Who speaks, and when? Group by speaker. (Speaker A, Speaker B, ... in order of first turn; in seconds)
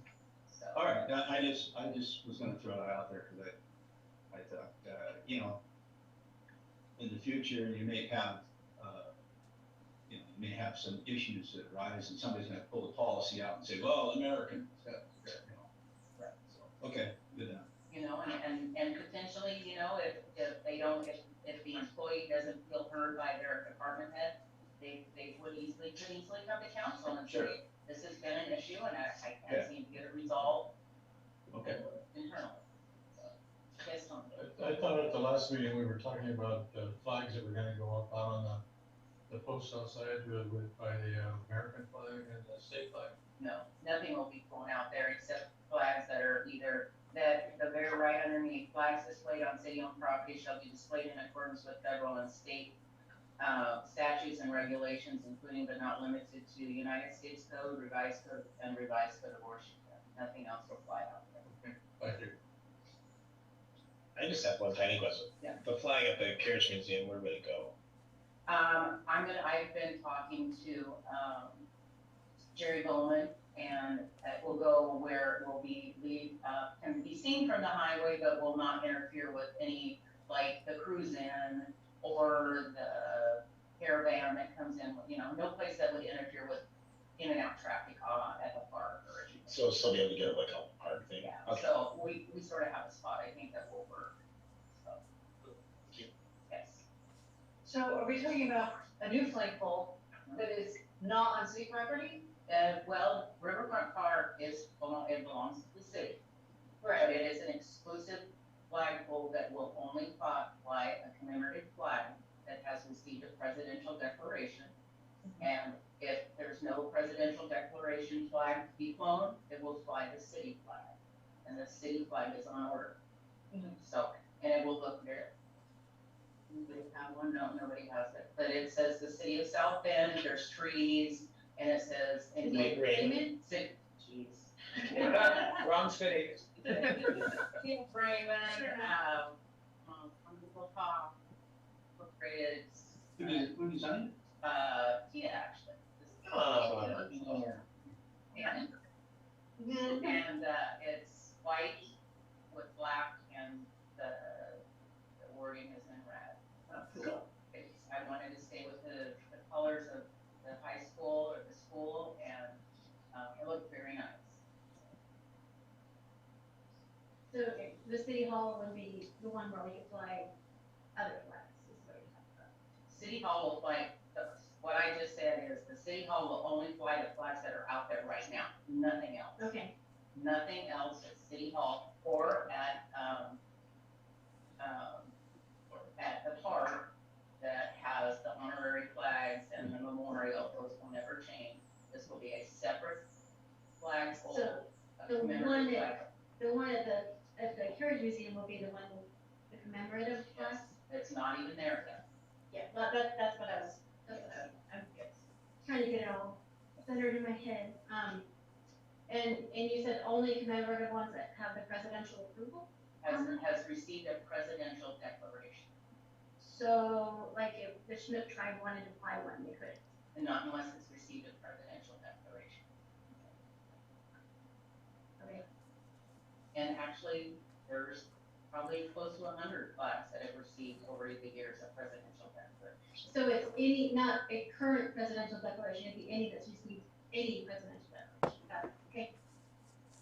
Speaker A: 0.5-0.9, 17.9-30.7, 32.1-32.6, 33.2-34.5, 43.4-52.8, 53.4-61.5, 68.5-71.7, 72.5-86.7, 87.2-89.7, 91.2-94.2, 94.7-95.0, 96.5-96.8, 102.5-106.2, 107.0-114.7, 115.4-123.0, 123.8-125.3, 126.5-134.5, 135.1-135.4, 136.7-141.2, 142.0-143.5, 144.4-147.6, 148.3-148.7, 149.7-151.9, 152.5-154.6, 155.2-162.6, 163.1-164.9, 172.9-179.5, 180.1-183.4, 184.6-185.1, 186.0-193.1, 193.8-196.1, 200.3-202.0, 213.0-215.7, 220.1-222.7, 226.5-232.8
Speaker B: 0.7-3.5, 4.3-5.6, 7.0-9.1, 10.1-15.7, 16.5-17.6, 27.3-27.5, 31.5-31.8, 143.2-144.1
Speaker C: 34.3-38.6, 39.3-43.1, 61.5-62.4
Speaker D: 64.2-67.7, 89.5-91.7, 132.5-133.2, 135.0-136.4, 146.5-147.0
Speaker E: 97.6-102.3
Speaker F: 106.8-107.1, 132.4-133.3, 167.3-170.3, 171.0-172.5, 179.4-179.7, 194.3-200.6, 202.5-208.3, 209.1-213.4, 216.4-219.8, 233.1-239.1